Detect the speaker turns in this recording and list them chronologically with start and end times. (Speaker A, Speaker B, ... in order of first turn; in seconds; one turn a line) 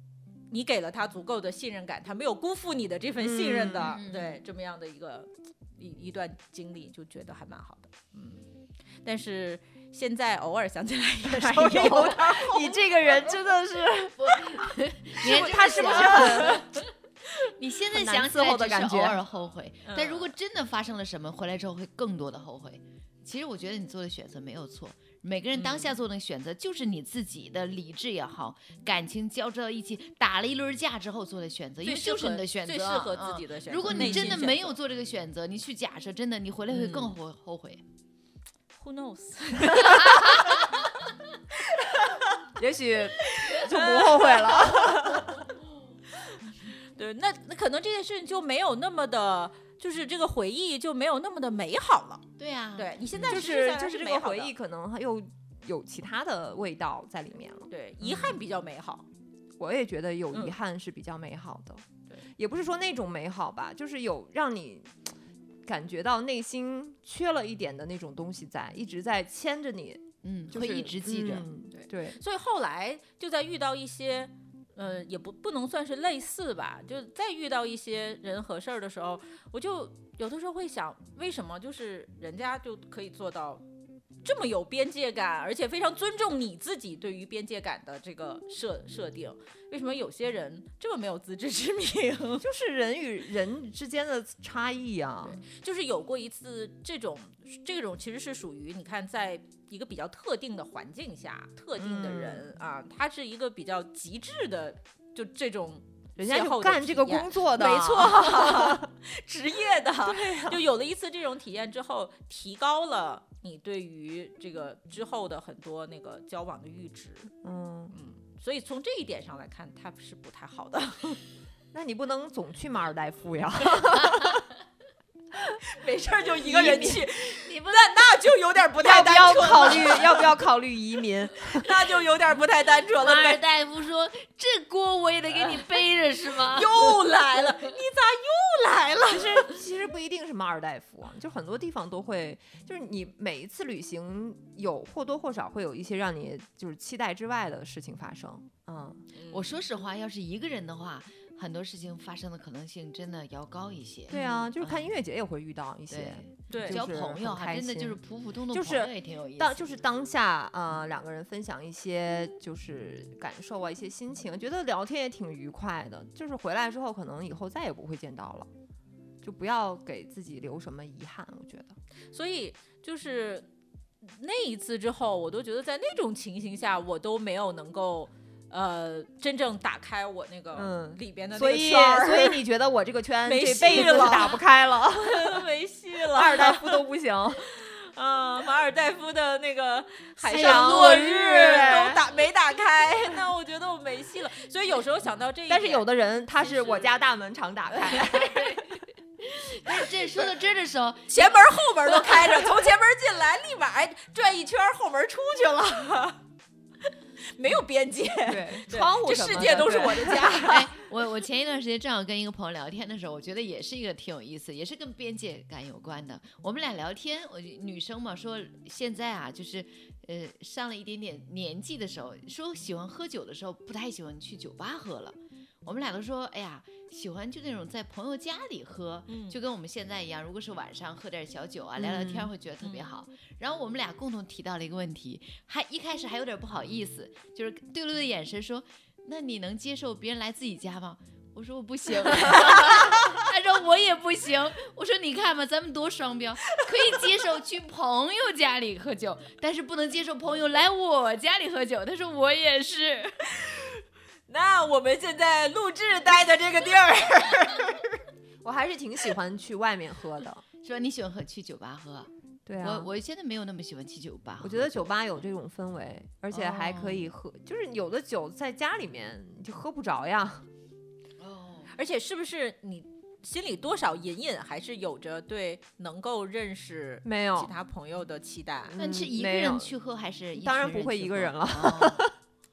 Speaker A: 0.5-8.4
Speaker B: 3.2-4.0
Speaker C: 3.8-4.4
Speaker A: 9.0-13.3
Speaker B: 11.2-14.3
Speaker C: 14.2-16.9
Speaker A: 15.2-16.7
Speaker B: 15.2-16.6
Speaker C: 17.6-37.8
Speaker B: 17.9-19.2
Speaker A: 19.9-20.3
Speaker A: 25.5-25.9
Speaker A: 31.8-34.7
Speaker B: 33.9-34.4
Speaker A: 36.7-37.1
Speaker A: 38.8-40.8
Speaker C: 40.1-40.6
Speaker A: 41.5-42.4
Speaker B: 42.6-45.4
Speaker A: 43.2-45.2
Speaker A: 46.2-54.5
Speaker C: 52.4-53.3
Speaker B: 53.1-58.4
Speaker A: 57.7-59.0
Speaker B: 59.6-61.8
Speaker A: 60.3-60.6
Speaker B: 62.4-65.1
Speaker B: 65.6-72.2
Speaker C: 70.2-71.5
Speaker A: 71.7-83.6
Speaker A: 84.2-92.5
Speaker B: 92.4-95.4
Speaker A: 95.2-117.3
Speaker B: 101.8-102.5
Speaker B: 106.2-108.9
Speaker B: 110.0-110.6
Speaker B: 117.4-117.9
Speaker A: 117.9-121.2
Speaker B: 121.7-124.5
Speaker A: 125.7-130.3
Speaker B: 126.4-127.1
Speaker C: 126.6-128.1
Speaker B: 128.8-131.8
Speaker A: 131.4-133.4
Speaker C: 133.0-137.0
Speaker A: 136.4-139.6
Speaker B: 139.1-149.0
Speaker A: 149.1-149.5
Speaker C: 149.3-154.9
Speaker B: 154.1-158.0
Speaker C: 155.9-159.7
Speaker A: 156.5-156.8
Speaker B: 158.5-168.5
Speaker B: 169.2-171.8
Speaker A: 172.1-173.5
Speaker A: 174.0-182.4
Speaker B: 180.5-185.5
Speaker A: 183.2-186.8
Speaker B: 186.1-187.5
Speaker A: 187.4-195.8
Speaker B: 190.2-192.0
Speaker C: 190.3-191.1
Speaker B: 195.5-198.6
Speaker A: 196.4-196.9
Speaker A: 197.8-198.3
Speaker C: 198.1-202.5
Speaker A: 201.1-206.2
Speaker A: 207.3-210.7
Speaker B: 208.2-210.5
Speaker C: 210.2-253.2
Speaker A: 229.1-229.4
Speaker B: 231.8-232.3
Speaker A: 232.6-232.9
Speaker A: 246.7-247.0
Speaker A: 253.3-258.0
Speaker B: 258.4-260.4
Speaker C: 260.6-264.9
Speaker B: 262.4-262.9
Speaker B: 264.4-270.4
Speaker C: 266.3-267.1
Speaker C: 271.2-271.7
Speaker A: 271.7-278.7
Speaker B: 277.0-277.5
Speaker B: 278.7-279.7
Speaker C: 278.8-282.1
Speaker B: 280.4-282.1